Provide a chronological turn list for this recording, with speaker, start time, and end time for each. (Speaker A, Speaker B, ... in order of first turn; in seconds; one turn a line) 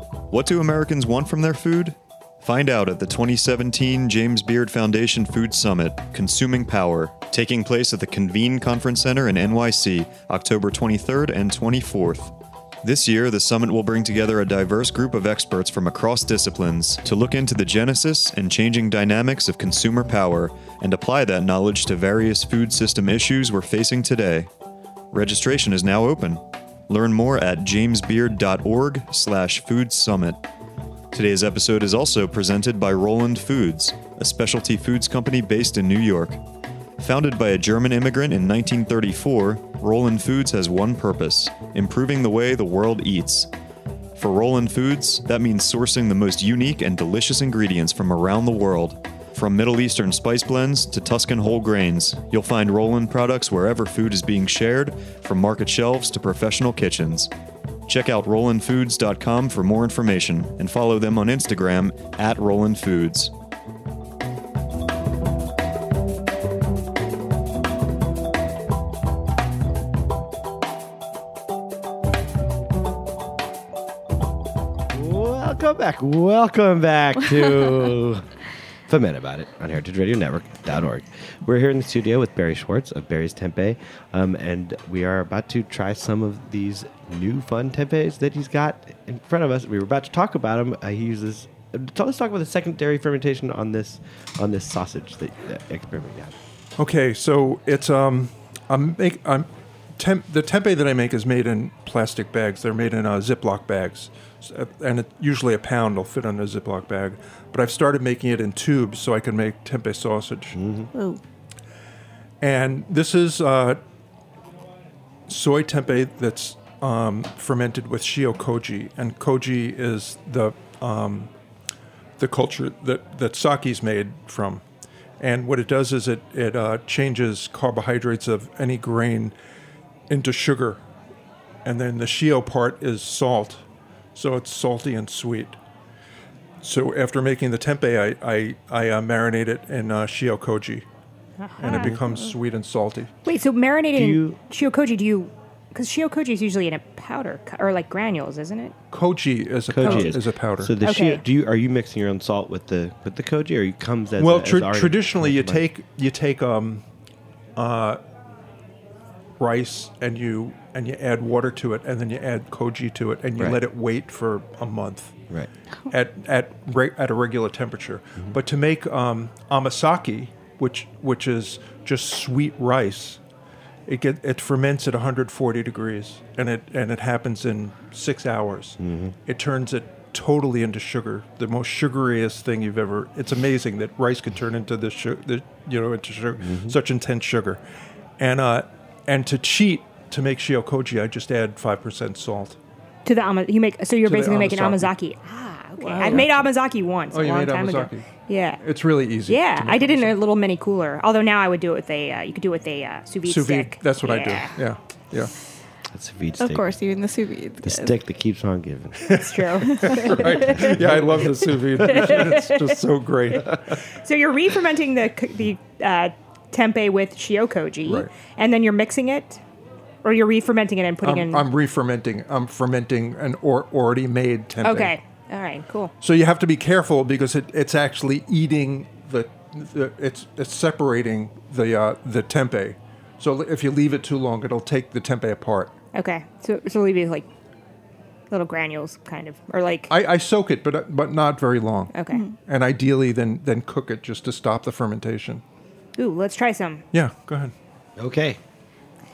Speaker A: 0.3-12.3
Speaker A: 12.8-24.5
Speaker A: 25.1-30.4
Speaker A: 31.1-36.4
Speaker A: 37.0-43.5
Speaker A: 44.1-57.3
Speaker A: 57.9-63.3
Speaker B: 74.9-78.3
Speaker B: 78.9-96.3
Speaker C: 96.8-110.6
Speaker B: 110.5-110.9
Speaker D: 110.9-111.2
Speaker C: 112.4-113.8
Speaker C: 115.3-121.3
Speaker C: 122.2-124.6
Speaker C: 125.2-129.3
Speaker C: 130.1-130.8
Speaker C: 131.6-133.6
Speaker C: 134.1-135.6
Speaker C: 136.6-140.8
Speaker E: 141.4-141.9
Speaker C: 141.6-143.1
Speaker B: 141.7-142.0
Speaker E: 143.2-148.7
Speaker B: 143.9-144.4
Speaker C: 148.9-150.8
Speaker B: 149.7-155.6
Speaker E: 150.8-151.2
Speaker C: 154.2-156.8
Speaker C: 157.6-158.0
Speaker C: 159.4-165.2
Speaker C: 165.9-173.2
Speaker C: 173.9-187.6
Speaker B: 178.8-179.1
Speaker B: 186.4-186.8
Speaker C: 188.2-192.6
Speaker E: 193.1-198.6
Speaker C: 194.0-194.9
Speaker D: 195.8-196.2
Speaker C: 196.0-196.4
Speaker C: 197.1-198.1
Speaker C: 198.6-200.2
Speaker E: 199.3-204.6
Speaker C: 203.2-205.3
Speaker B: 205.9-206.7
Speaker D: 206.4-207.9
Speaker B: 207.6-209.2
Speaker C: 209.0-213.8
Speaker E: 209.1-210.7
Speaker B: 210.0-212.1
Speaker E: 211.8-212.7
Speaker E: 213.9-219.4
Speaker C: 217.8-218.1
Speaker E: 220.0-221.4
Speaker C: 221.0-224.9
Speaker E: 224.6-225.9
Speaker C: 226.0-235.7
Speaker E: 235.9-237.2
Speaker E: 238.3-239.9
Speaker C: 239.9-241.9
Speaker E: 241.9-242.2
Speaker C: 242.4-245.4
Speaker E: 246.0-246.8
Speaker C: 246.9-247.5
Speaker B: 248.0-248.4